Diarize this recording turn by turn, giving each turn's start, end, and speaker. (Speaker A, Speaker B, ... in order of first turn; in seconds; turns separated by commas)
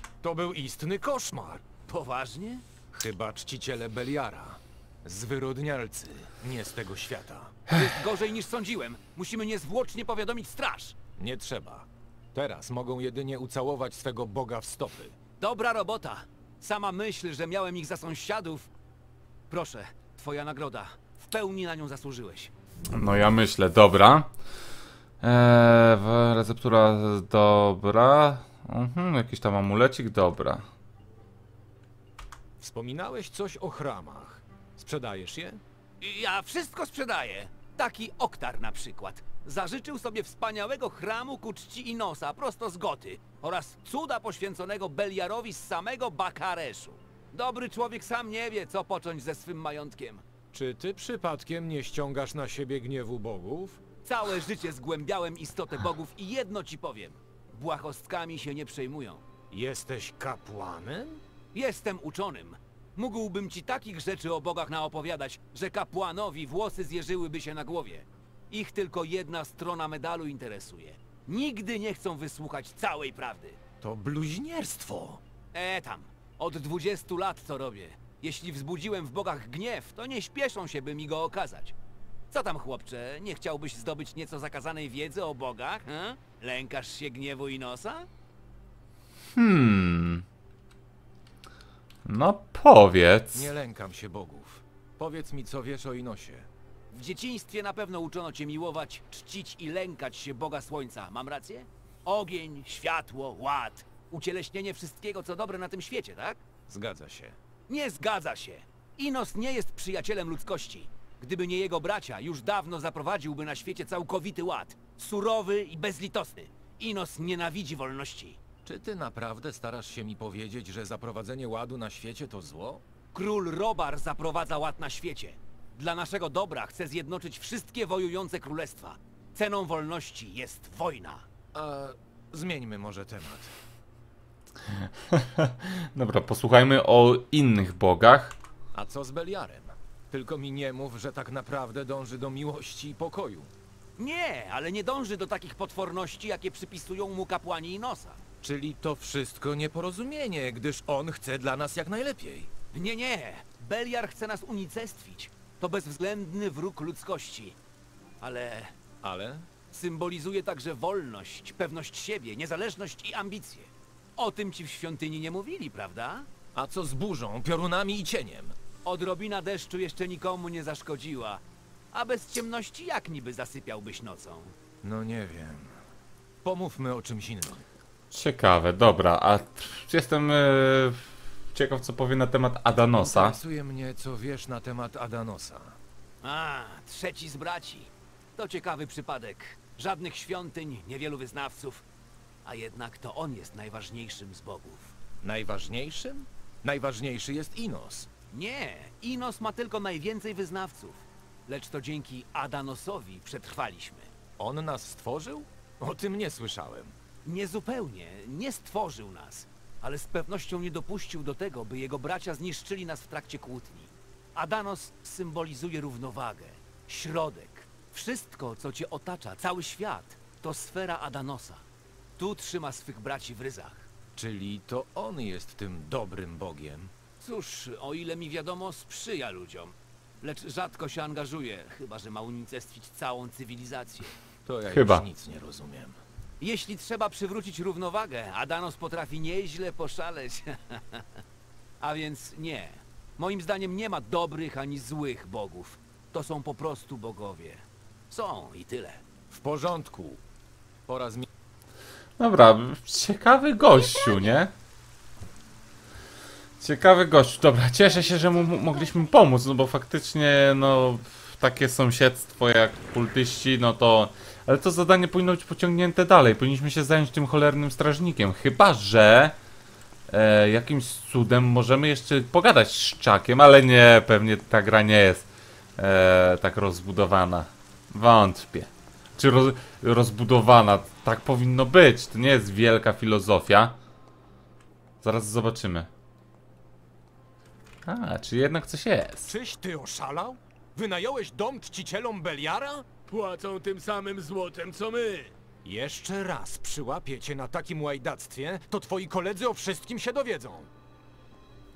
Speaker A: 0.2-1.7, Speaker B: 1.9-2.6, Speaker A: 2.9-7.6, Speaker B: 7.7-10.9, Speaker A: 11.2-15.2, Speaker B: 15.4-18.7, Speaker B: 19.5-22.5, Speaker C: 22.9-24.3, Speaker C: 25.2-30.7, Speaker A: 32.6-35.6, Speaker B: 36.0-50.2, Speaker A: 50.5-53.8, Speaker B: 54.0-59.2, Speaker A: 59.5-61.2, Speaker B: 61.5-73.6, Speaker A: 73.8-75.2, Speaker B: 75.5-81.8, Speaker B: 82.3-88.1, Speaker C: 89.3-90.2, Speaker C: 92.0-93.5, Speaker A: 93.3-96.5, Speaker B: 96.9-106.4, Speaker A: 106.7-107.4, Speaker B: 107.7-118.4, Speaker A: 118.6-122.8, Speaker B: 123.1-131.2, Speaker A: 131.5-133.5, Speaker C: 134.7-138.4, Speaker A: 138.7-143.5, Speaker B: 144.0-148.2, Speaker A: 148.4-152.5, Speaker B: 152.7-157.6, Speaker B: 158.2-158.8, Speaker A: 159.0-159.5, Speaker B: 159.7-166.3, Speaker A: 166.5-168.6, Speaker B: 168.8-174.5, Speaker A: 174.8-175.8, Speaker A: 176.4-177.6, Speaker C: 178.1-183.4, Speaker A: 182.9-185.8, Speaker B: 186.2-191.8, Speaker B: 192.4-194.9, Speaker A: 195.2-198.1, Speaker B: 198.3-204.1, Speaker A: 204.4-206.9, Speaker B: 207.2-221.6, Speaker B: 222.2-223.9, Speaker A: 224.2-226.9, Speaker B: 227.2-234.1, Speaker A: 234.4-236.0, Speaker C: 234.7-235.0, Speaker B: 236.4-241.1, Speaker B: 241.8-249.0, Speaker A: 249.3-250.2, Speaker A: 250.9-251.3, Speaker C: 252.2-254.5, Speaker C: 256.6-269.4, Speaker C: 270.1-283.8, Speaker C: 285.0-285.9, Speaker C: 287.9-289.4, Speaker A: 289.2-292.9, Speaker D: 293.1-295.3, Speaker A: 295.6-300.7